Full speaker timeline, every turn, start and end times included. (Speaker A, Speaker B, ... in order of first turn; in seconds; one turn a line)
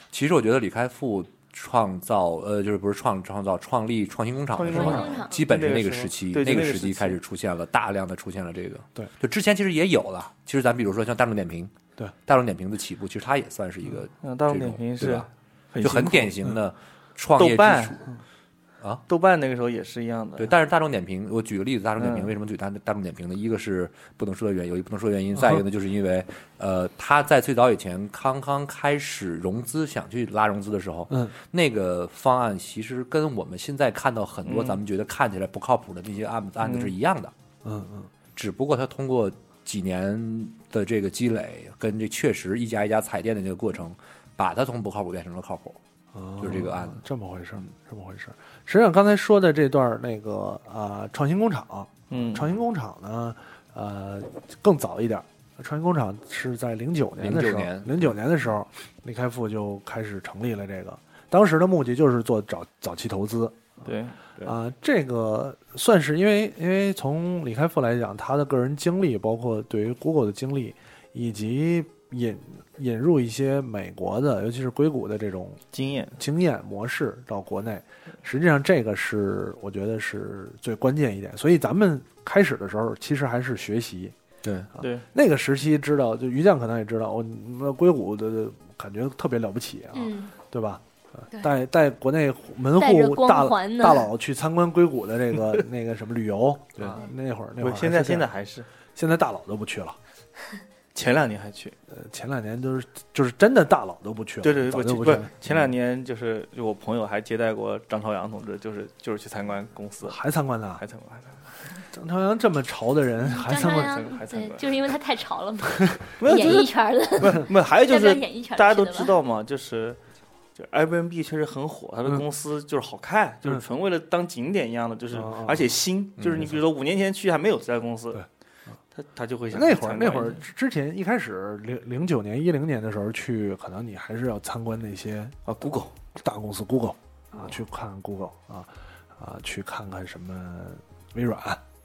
Speaker A: 0.1-11.7
Speaker B: 4.5-7.2
Speaker C: 4.7-5.5
Speaker A: 12.3-15.3
Speaker B: 14.2-16.3
Speaker A: 15.8-18.1
Speaker B: 17.4-18.0
Speaker B: 19.1-20.6
Speaker A: 20.4-37.3
Speaker B: 22.0-22.3
Speaker D: 25.4-25.6
Speaker B: 34.5-34.8
Speaker B: 36.6-36.9
Speaker D: 37.6-38.1
Speaker A: 38.4-45.8
Speaker D: 46.1-63.7
Speaker A: 46.4-47.0
Speaker B: 52.1-52.5
Speaker A: 57.2-58.1
Speaker B: 63.8-64.5
Speaker D: 64.4-75.6
Speaker B: 75.7-76.2
Speaker D: 76.2-84.2
Speaker A: 84.4-84.7
Speaker D: 84.8-98.3
Speaker B: 84.8-85.0
Speaker C: 90.0-90.3
Speaker C: 92.8-94.1
Speaker B: 97.6-98.7
Speaker D: 99.0-100.0
Speaker B: 101.0-101.8
Speaker D: 101.9-105.4
Speaker B: 104.4-110.2
Speaker D: 110.0-110.8
Speaker B: 110.8-111.8
Speaker D: 111.9-114.0
Speaker C: 113.2-119.1
Speaker B: 113.5-114.8
Speaker B: 116.2-120.0
Speaker B: 120.6-128.2
Speaker D: 125.1-125.8
Speaker A: 126.2-126.5
Speaker B: 128.9-130.4
Speaker D: 129.5-135.4
Speaker B: 135.5-135.9
Speaker D: 136.2-141.6